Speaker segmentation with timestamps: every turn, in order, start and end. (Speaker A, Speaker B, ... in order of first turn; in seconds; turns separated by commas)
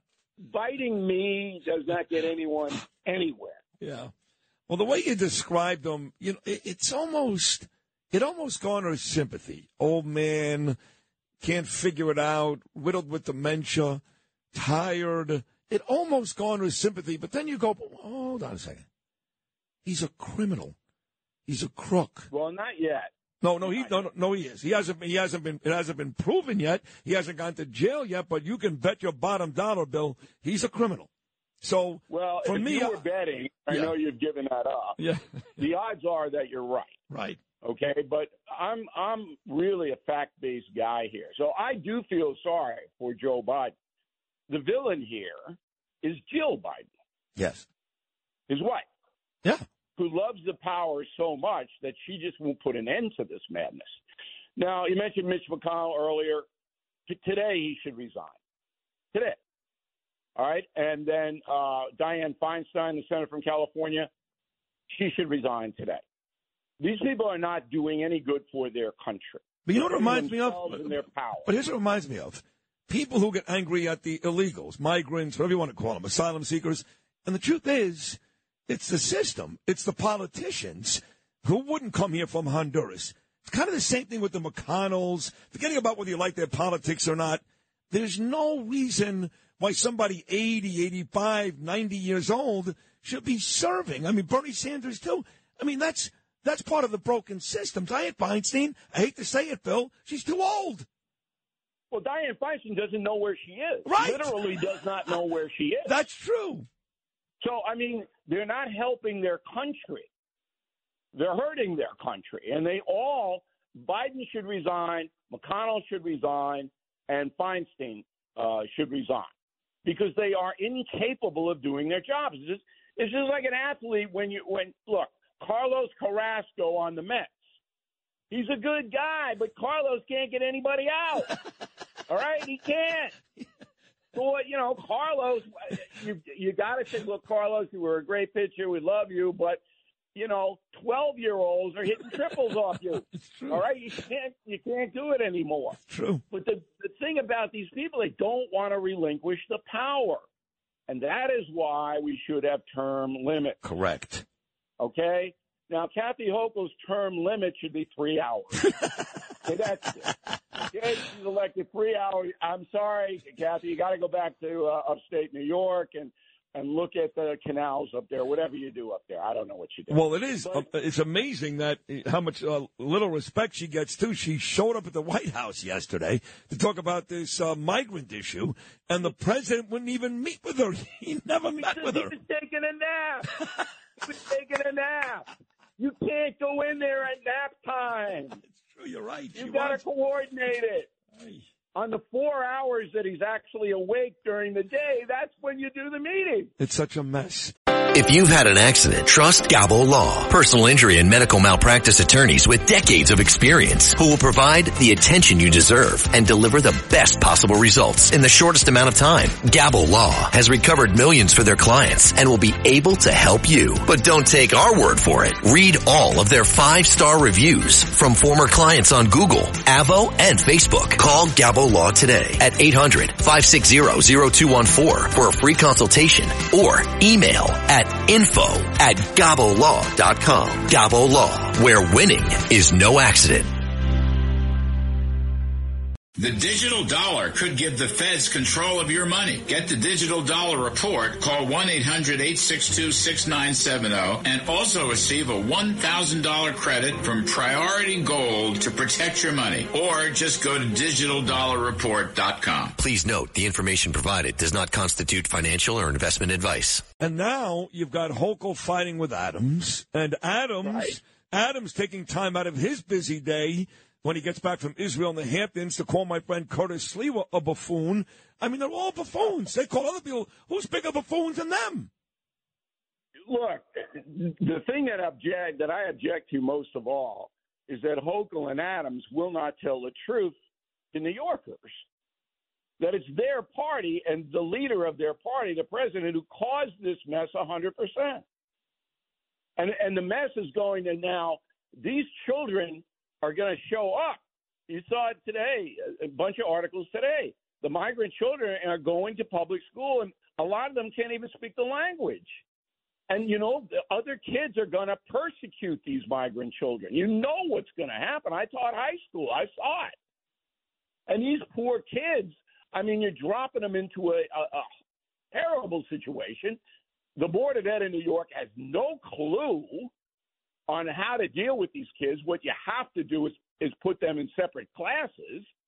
Speaker A: 0.4-3.6, Speaker B: 3.8-4.1, Speaker B: 4.7-10.8, Speaker B: 11.4-14.0, Speaker B: 14.5-18.9, Speaker B: 19.8-20.8, Speaker B: 21.5-22.3, Speaker A: 22.3-23.1, Speaker B: 23.4-31.1, Speaker A: 23.6-24.0, Speaker B: 31.6-33.0, Speaker A: 32.1-35.0, Speaker B: 35.0-35.2, Speaker A: 35.6-36.9, Speaker B: 37.1-37.4, Speaker A: 37.6-43.7, Speaker A: 44.5-46.9, Speaker B: 47.4-47.6, Speaker A: 48.5-48.9, Speaker A: 50.0-54.0, Speaker A: 54.6-56.5, Speaker A: 57.1-58.3, Speaker A: 59.1-59.4, Speaker A: 60.4-64.1, Speaker A: 64.9-66.0, Speaker A: 66.8-71.5, Speaker B: 69.7-100.9, Speaker A: 101.9-105.9, Speaker B: 103.8-104.4, Speaker B: 105.8-106.7, Speaker A: 107.4-110.1, Speaker A: 111.1-119.3, Speaker A: 119.8-127.3, Speaker A: 128.3-131.4, Speaker A: 132.1-133.1, Speaker A: 134.1-139.6, Speaker A: 140.1-145.8, Speaker B: 143.2-143.7, Speaker B: 145.9-146.2, Speaker A: 146.3-150.2, Speaker A: 150.9-153.6, Speaker B: 153.6-154.2, Speaker A: 154.8-158.7, Speaker A: 159.4-160.1, Speaker A: 160.7-170.7, Speaker B: 169.9-182.1, Speaker A: 181.6-183.4, Speaker A: 184.0-188.4, Speaker B: 188.5-189.8, Speaker A: 189.3-190.9, Speaker B: 191.2-191.4, Speaker A: 191.7-196.5, Speaker B: 196.6-197.5, Speaker C: 197.9-233.5, Speaker D: 236.2-252.8, Speaker C: 252.8-256.8, Speaker B: 257.0-271.9, Speaker A: 260.6-261.0, Speaker A: 273.3-280.3, Speaker A: 280.9-281.8, Speaker A: 282.8-288.2, Speaker A: 289.6-302.4, Speaker A: 303.1-309.9, Speaker A: 311.1-314.7, Speaker A: 315.3-316.6, Speaker A: 317.2-319.9, Speaker A: 320.7-325.5